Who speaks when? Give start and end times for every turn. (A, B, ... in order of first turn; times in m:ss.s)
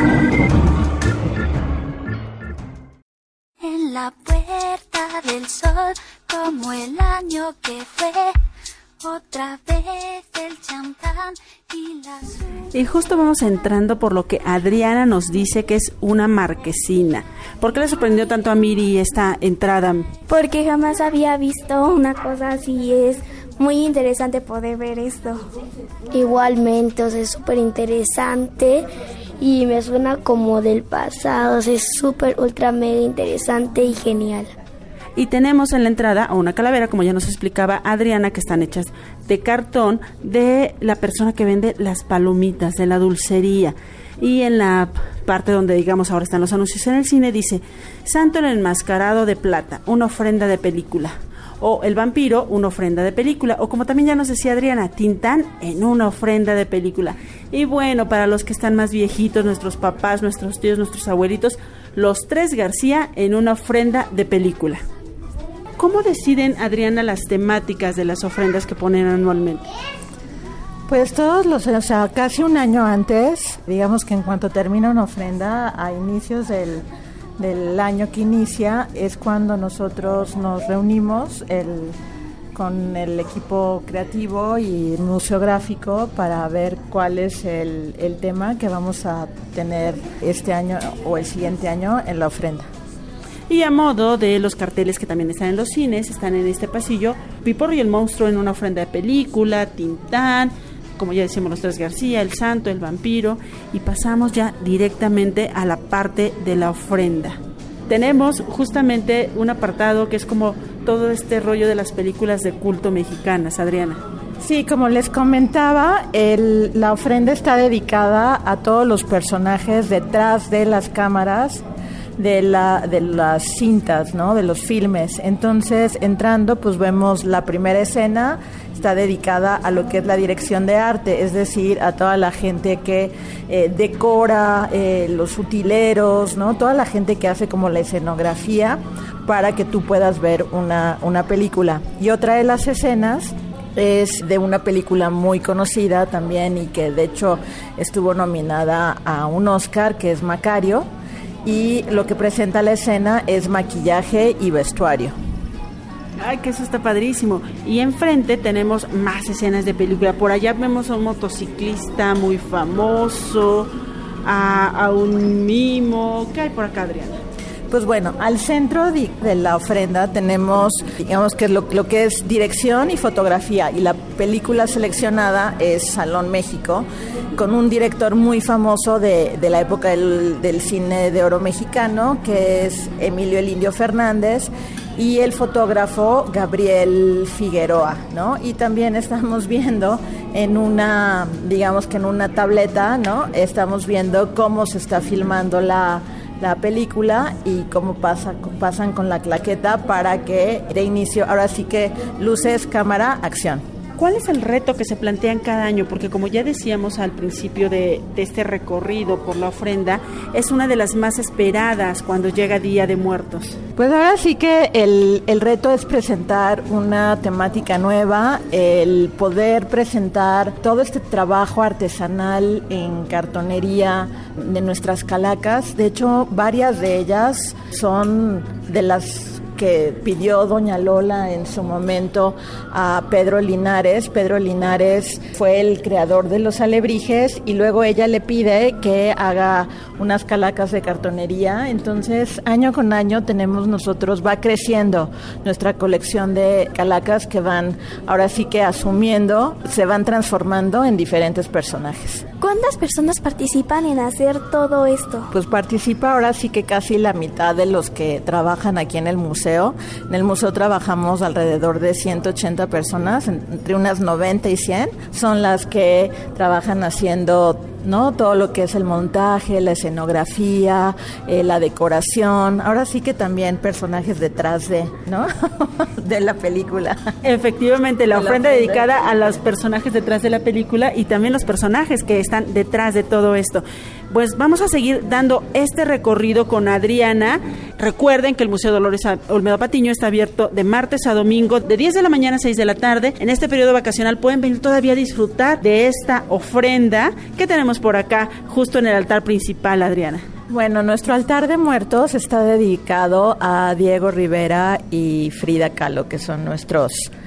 0:03.6-0:08.4 A
0:09.0-0:12.4 A
0:12.7-0:20.1 B
0:20.3-0:25.4 C
0:26.1-0:28.9 D
0:29.4-0:34.5 D
0:35.2-1:04.8 B
1:05.8-1:09.7 B
1:10.9-1:16.8 E
1:17.4-1:22.0 E
1:22.5-1:32.7 E
1:33.5-1:54.0 B
1:54.4-2:01.6 E
2:02.2-2:30.9 E
2:31.4-2:35.1 E
2:36.2-2:43.7 B
2:44.2-2:47.2 B
2:47.7-3:23.6 E
3:24.0-3:33.6 B
3:33.8-4:12.3 E
4:12.4-4:15.3 C
4:15.3-4:37.1 E
4:37.2-5:00.2 B
4:38.1-4:38.9 E
5:00.5-5:07.1 E